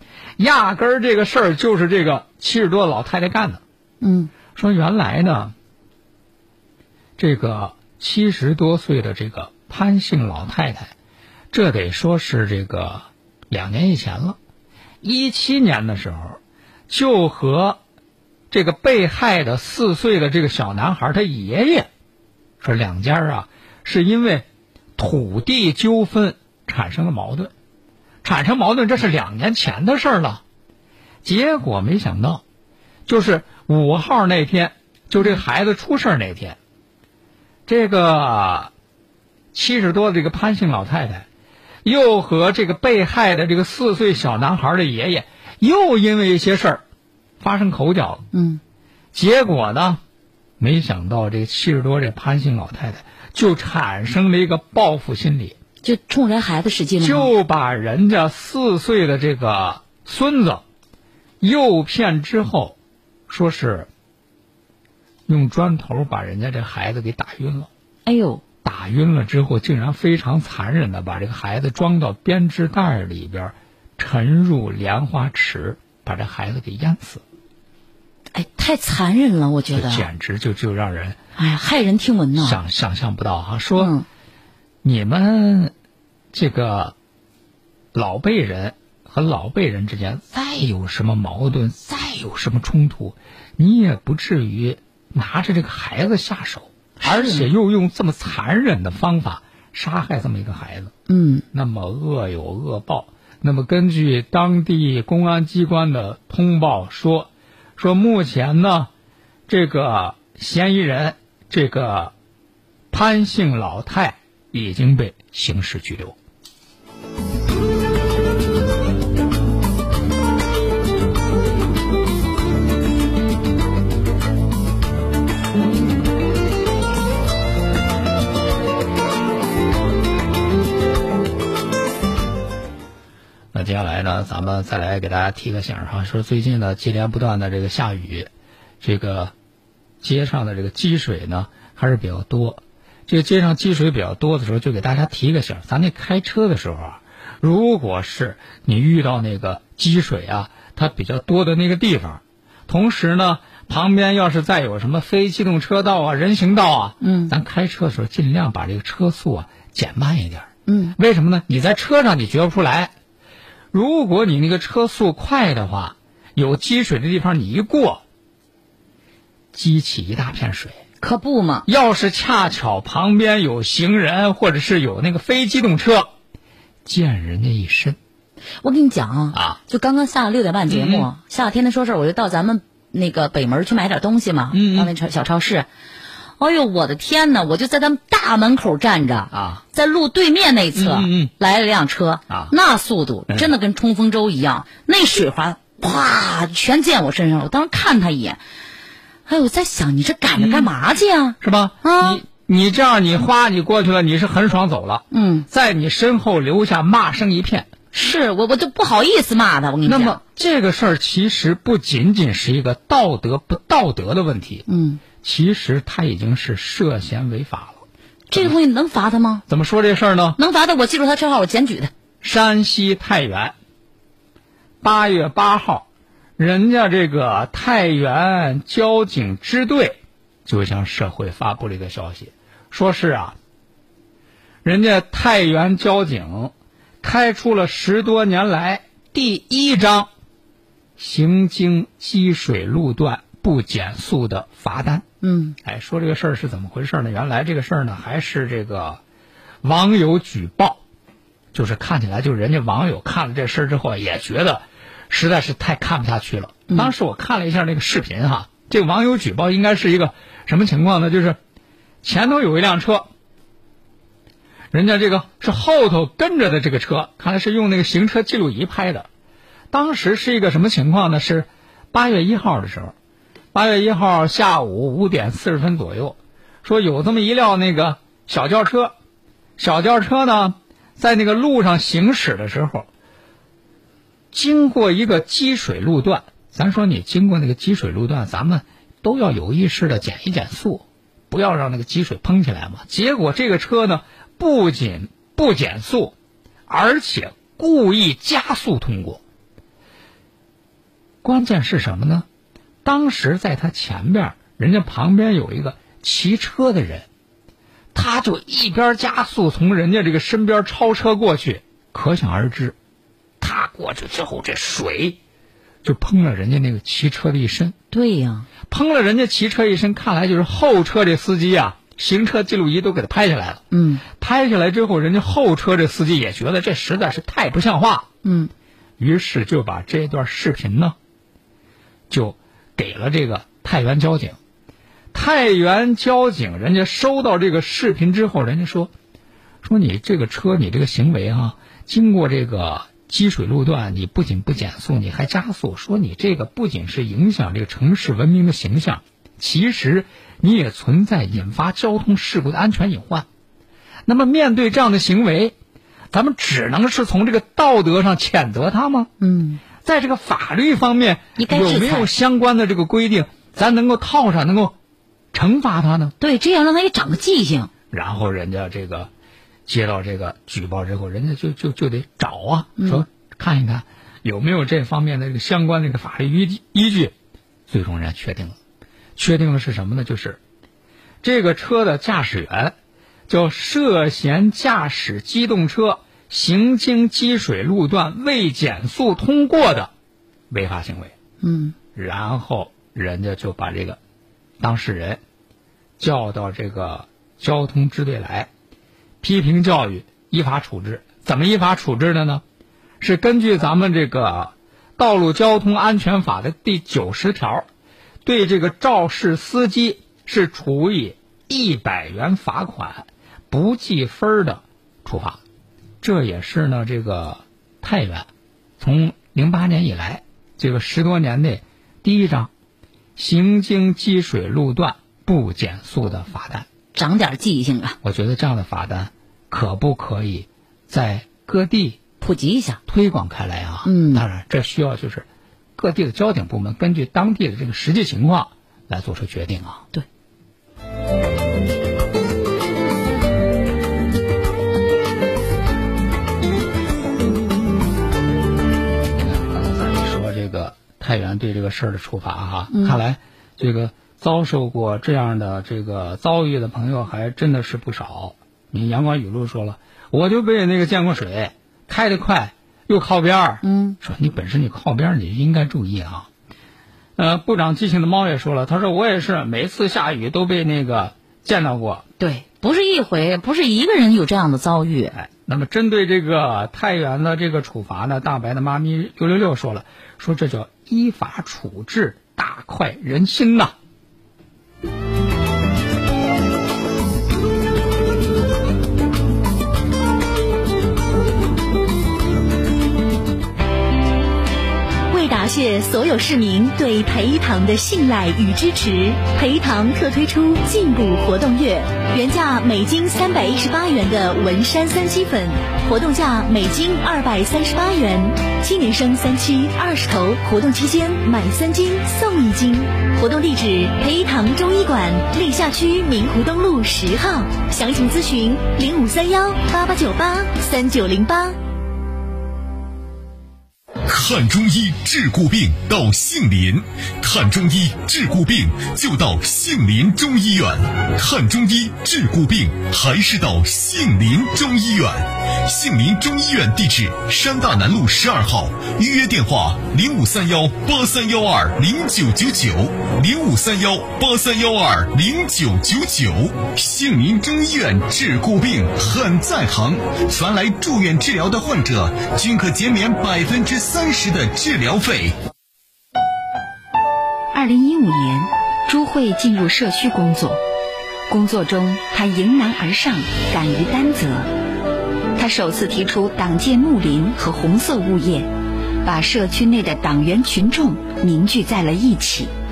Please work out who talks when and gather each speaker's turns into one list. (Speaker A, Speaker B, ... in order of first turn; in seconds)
Speaker A: 0.4-3.6, 4.5-5.5, 7.2-10.9, 11.5-14.4, 15.0-17.8, 18.5-21.9, 22.6-24.4, 25.0-27.5, 28.2-30.4, 31.2-32.4, 33.0-36.6, 37.7-38.7, 39.5-41.2, 41.8-46.8, 47.4-48.2, 49.1-50.0, 50.6-55.6, 57.0-60.6, 61.4-62.8, 63.3-63.9, 65.3-67.7, 68.6-77.2, 79.7-81.2, 82.4-83.9, 84.8-85.7, 86.3-86.9, 87.9-100.9, 101.5-108.9, 109.5-112.1, 112.9-116.2, 133.5-138.3, 138.8-139.3, 140.0-162.9, 163.7-168.0, 169.5-170.8, 171.7-176.1, 176.8-178.0, 179.3-179.6, 180.7-181.1, 184.5-184.9, 189.3-189.6, 190.7-191.3, 192.3-192.5, 200.3-200.7, 201.4-207.7, 209.8-214.6, 215.2-218.5, 219.5-220.4, 222.2-223.5, 224.8-225.9, 226.4-233.4, 234.6-240.1, 241.0-245.1, 245.6-249.0, 249.6-250.8, 251.5-261.4, 262.0-263.1, 264.7-269.1, 269.7-272.9, 273.5-278.9, 279.6-282.9, 284.3-296.1, 296.7-299.2, 301.2-302.3, 302.8-307.1, 307.9-312.8, 313.4-315.2, 315.8-317.8, 318.7-328.1, 329.0-331.0, 332.1-334.4, 335.1-338.9, 339.6-353.3, 354.1-355.5, 356.1-359.1, 359.8-364.8, 365.3-366.1, 367.9-369.1, 369.7-377.1, 377.7-378.6, 379.1-380.4, 381.2-382.8, 383.3-389.9, 390.5-391.1, 391.9-394.0, 394.6-395.2, 396.0-398.5, 399.2-402.4, 403.0-407.7, 408.2-415.4, 416.0-418.3, 418.8-422.5, 423.1-426.7, 428.0-432.0, 432.9-439.8, 449.1-466.3, 467.2-472.0, 475.1-483.7
Speaker B: 4.0-4.3, 48.3-48.6, 55.8-57.3, 68.0-68.4, 78.3-80.1, 81.4-82.6, 83.8-84.0, 97.0-97.5, 101.1-101.4, 157.0-157.3, 160.7-160.9, 171.0-171.7, 178.6-185.7, 186.4-198.4, 199.3-202.2, 205.1-205.5, 207.9-210.2, 214.7-215.0, 218.3-219.4, 220.4-221.9, 245.2-245.6, 317.9-318.5, 323.7-324.0, 328.2-328.5, 359.2-359.6, 361.4-362.1, 366.2-367.7, 372.8-373.0, 391.4-391.7, 426.9-428.0, 432.2-432.8, 433.8-434.2, 452.7-453.0, 463.6-464.0, 472.2-475.1
Speaker C: 495.1-521.5
Speaker D: 524.0-555.3
Speaker E: 557.5-560.6, 561.3-564.5, 565.3-568.5, 569.0-572.5